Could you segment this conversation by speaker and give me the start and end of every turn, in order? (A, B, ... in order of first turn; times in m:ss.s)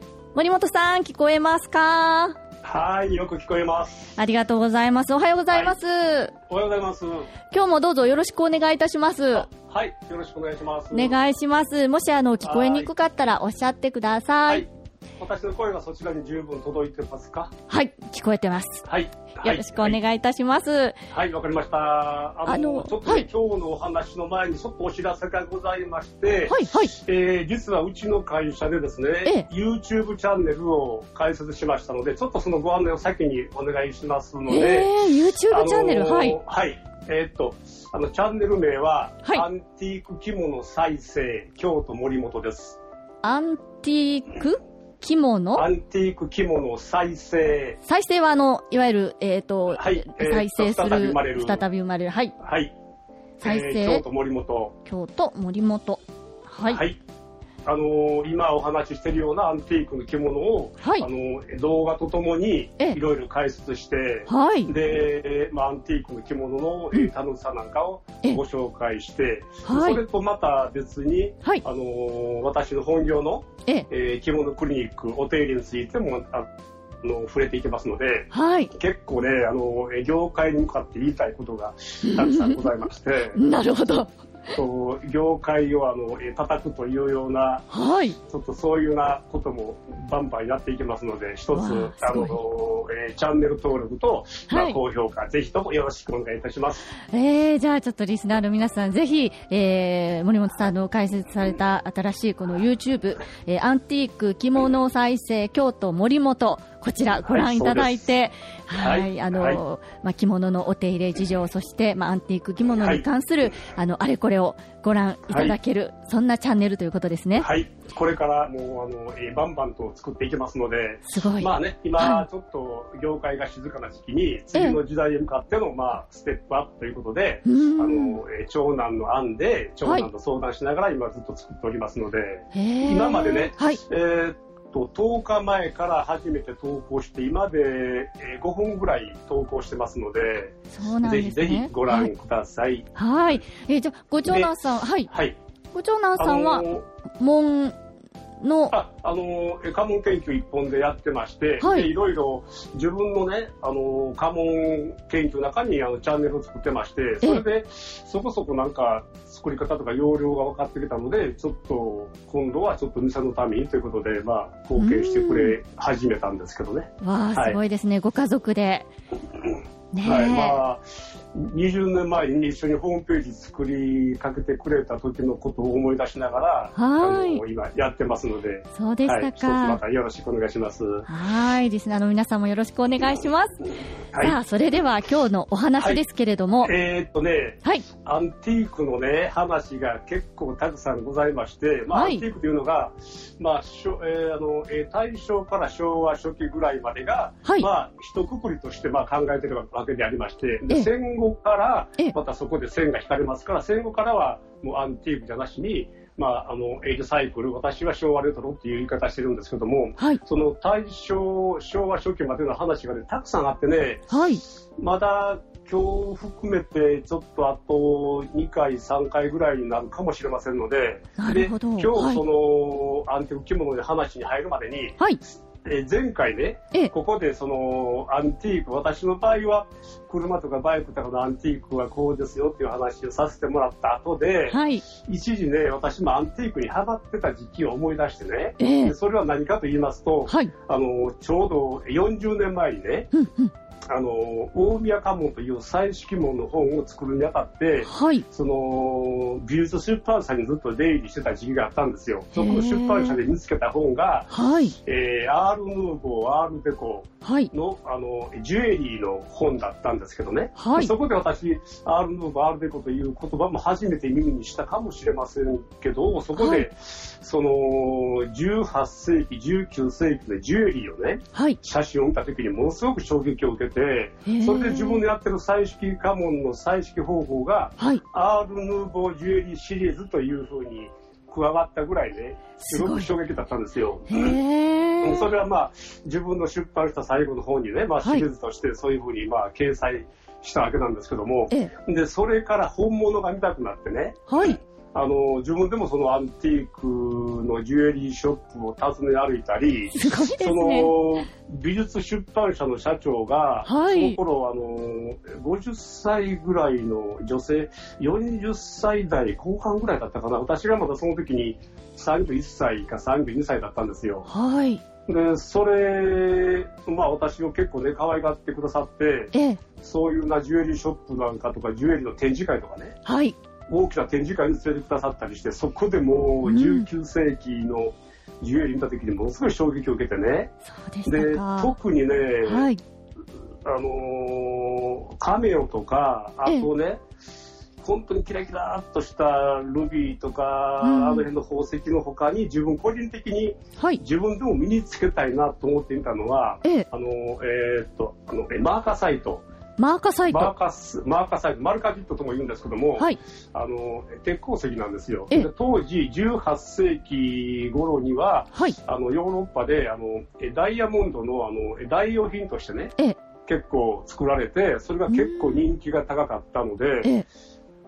0:00.4-0:02.4 A
0:02.6-0:04.1 B
0:04.2-0:06.3 A
0:05.5-0:05.8 B
0:06.5-0:07.3 B
0:07.5-0:09.5 A
0:09.3-0:11.2 B
0:10.9-0:14.7 A
0:12.4-0:12.9 B
0:15.2-0:17.5 B
0:17.7-0:18.8 A
0:18.8-0:20.0 B
0:19.4-0:21.0 A
0:21.1-0:34.9 B
0:22.5-0:23.3 A
0:26.5-0:27.0 A
0:34.5-0:36.4 A
0:35.5-0:42.8 B
0:43.2-0:45.7 A
0:45.6-0:47.8 B
0:47.8-0:52.4 A
0:49.7-0:51.6 B
0:52.4-0:52.7 B
0:53.4-0:54.0 A
0:53.4-0:54.8 B
0:54.8-0:56.8 A
0:56.7-0:57.0 B
0:57.7-1:23.4 B
1:00.8-1:01.1 A
1:04.3-1:04.7 A
1:09.6-1:10.0 A
1:18.3-1:18.7 A
1:22.0-1:22.7 A
1:23.4-1:24.1 A
1:24.5-1:27.7 B
1:27.7-1:28.2 A
1:28.2-1:36.9 B
1:31.5-1:32.4 A
1:34.5-1:34.8 A
1:37.1-1:57.5 A
1:47.2-1:48.1 B
1:48.8-1:49.6 B
1:52.8-1:53.1 B
1:55.3-1:55.6 B
1:57.4-2:22.9 B
2:01.1-2:02.3 A
2:07.5-2:08.2 A
2:12.5-2:13.8 A
2:20.7-2:22.1 A
2:23.0-2:25.1 A
2:24.3-2:24.5 B
2:25.1-2:25.4 B
2:25.7-2:26.7 A
2:26.2-2:26.8 B
2:27.2-2:27.8 A
2:28.4-2:28.7 A
2:28.7-2:47.6 B
2:31.6-2:31.9 A
2:44.8-2:45.6 A
2:47.0-2:48.9 A
2:49.9-2:50.6 A
2:50.0-3:01.1 B
2:56.8-2:57.4 A
2:58.8-2:59.8 A
3:01.1-3:03.6 A
3:04.1-3:04.4 B
3:04.2-3:06.7 A
3:05.8-3:06.0 B
3:06.6-3:34.1 B
3:11.9-3:12.3 A
3:34.1-3:34.4 A
3:34.8-3:45.0 B
3:41.2-3:42.2 A
3:45.6-4:03.1 B
3:54.5-3:54.9 A
3:58.6-3:59.0 A
4:00.3-4:00.5 A
4:03.1-4:03.5 A
4:03.9-4:14.3 B
4:07.9-4:08.3 A
4:12.3-4:13.2 A
4:14.3-4:14.8 A
4:14.8-4:44.4 B
4:17.2-4:17.5 A
4:20.6-4:20.9 A
4:26.3-4:26.7 A
4:34.3-4:35.0 A
4:42.6-4:43.1 A
4:44.1-4:45.4 A
4:45.0-5:14.3 B
4:54.3-4:54.6 A
4:59.9-5:01.0 A
5:03.7-5:04.2 A
5:14.3-5:14.8 A
5:15.1-5:23.0 B
5:19.3-5:19.6 A
5:23.1-5:23.4 A
5:23.7-5:30.5 B
5:26.4-5:26.9 A
5:30.8-5:31.8 A
5:31.0-5:32.7 B
5:32.4-5:32.8 A
5:33.6-5:37.0 B
5:37.8-5:49.4 B
5:40.8-5:41.3 A
5:49.8-5:50.5 A
5:50.3-6:07.1 B
6:05.1-6:05.7 A